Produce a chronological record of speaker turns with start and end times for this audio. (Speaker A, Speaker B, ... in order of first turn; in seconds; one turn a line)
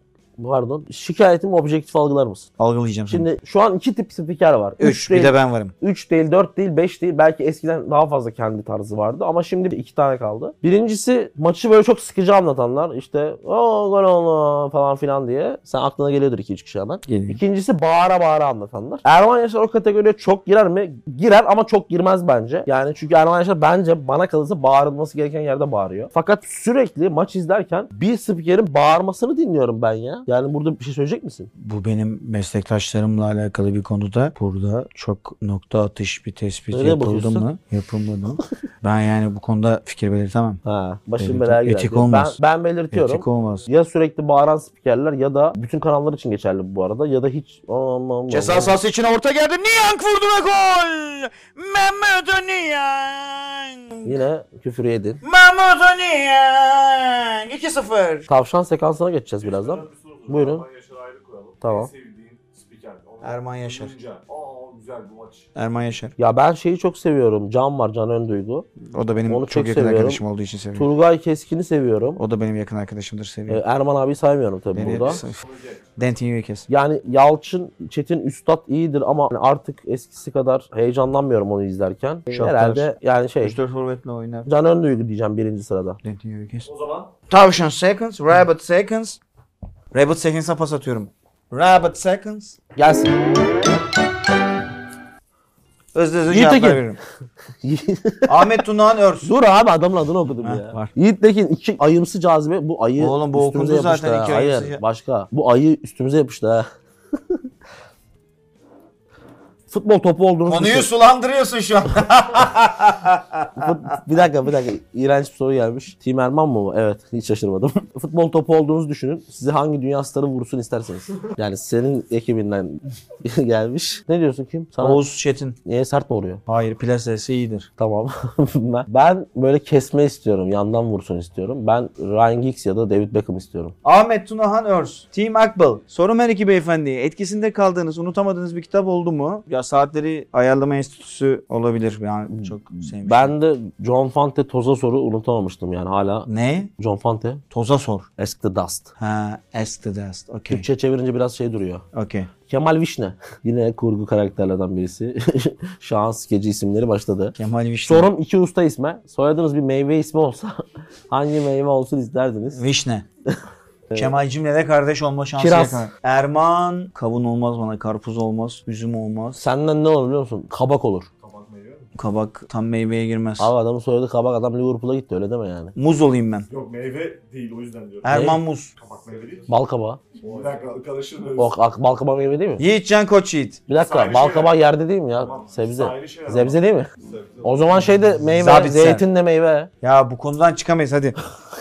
Speaker A: 0.4-2.5
Speaker B: 2.6-3.3
Speaker A: 3.1-31.5
Speaker B: 4.8-5.7
Speaker B: 17.1-17.4
Speaker B: 31.6-40.6
Speaker A: 36.7-37.5
Speaker A: 40.6-48.8
Speaker B: 41.2-42.4
Speaker B: 42.9-43.7
Speaker B: 48.3-54.2
Speaker A: 54.0-55.2
Speaker B: 55.2-58.3
Speaker A: 58.3-60.6
Speaker C: 59.4-65.5
Speaker A: 61.6-61.9
Speaker B: 63.2-63.9
Speaker B: 65.6-66.2
Speaker A: 66.2-68.7
Speaker B: 68.9-70.9
Speaker A: 69.3-70.2
Speaker A: 70.8-72.2
Speaker B: 72.2-73.6
Speaker A: 73.5-75.2
Speaker B: 74.8-75.4
Speaker C: 74.8-75.9
Speaker B: 76.0-76.7
Speaker A: 76.7-83.6
Speaker B: 82.3-82.9
Speaker B: 83.4-84.5
Speaker A: 84.5-86.0
Speaker B: 86.0-86.7
Speaker C: 86.6-87.1
Speaker B: 87.3-89.2
Speaker B: 89.9-92.6
Speaker A: 92.8-93.3
Speaker B: 95.9-97.0
Speaker A: 96.3-96.8
Speaker A: 97.6-98.4
Speaker B: 98.3-99.3
Speaker A: 99.2-106.7
Speaker B: 100.4-100.9
Speaker B: 103.0-104.8
Speaker A: 109.7-110.9
Speaker B: 110.5-113.8
Speaker A: 113.6-125.0
Speaker B: 124.8-125.6
Speaker A: 125.7-126.4
Speaker B: 126.5-127.7
Speaker A: 127.8-133.8
Speaker B: 133.8-143.3
Speaker A: 142.3-147.4
Speaker B: 146.3-146.7
Speaker B: 147.5-148.1
Speaker A: 148.2-148.9
Speaker B: 149.0-150.7
Speaker A: 150.5-151.8
Speaker B: 151.9-152.3
Speaker A: 152.5-162.6
Speaker B: 157.4-158.1
Speaker B: 162.6-163.1
Speaker A: 163.3-164.2
Speaker B: 164.0-169.4
Speaker A: 165.4-165.9
Speaker A: 169.4-171.1
Speaker C: 171.2-171.9
Speaker B: 172.0-173.5
Speaker A: 173.4-175.7
Speaker B: 175.8-176.5
Speaker C: 176.5-178.3
Speaker B: 178.0-178.8
Speaker A: 178.1-178.4
Speaker C: 178.8-179.5
Speaker A: 179.5-180.0
Speaker C: 180.2-181.6
Speaker A: 181.4-182.7
Speaker B: 182.6-183.6
Speaker A: 183.7-186.9
Speaker C: 183.8-184.6
Speaker C: 185.2-187.9
Speaker A: 187.4-189.7
Speaker B: 188.3-189.1
Speaker B: 189.8-191.2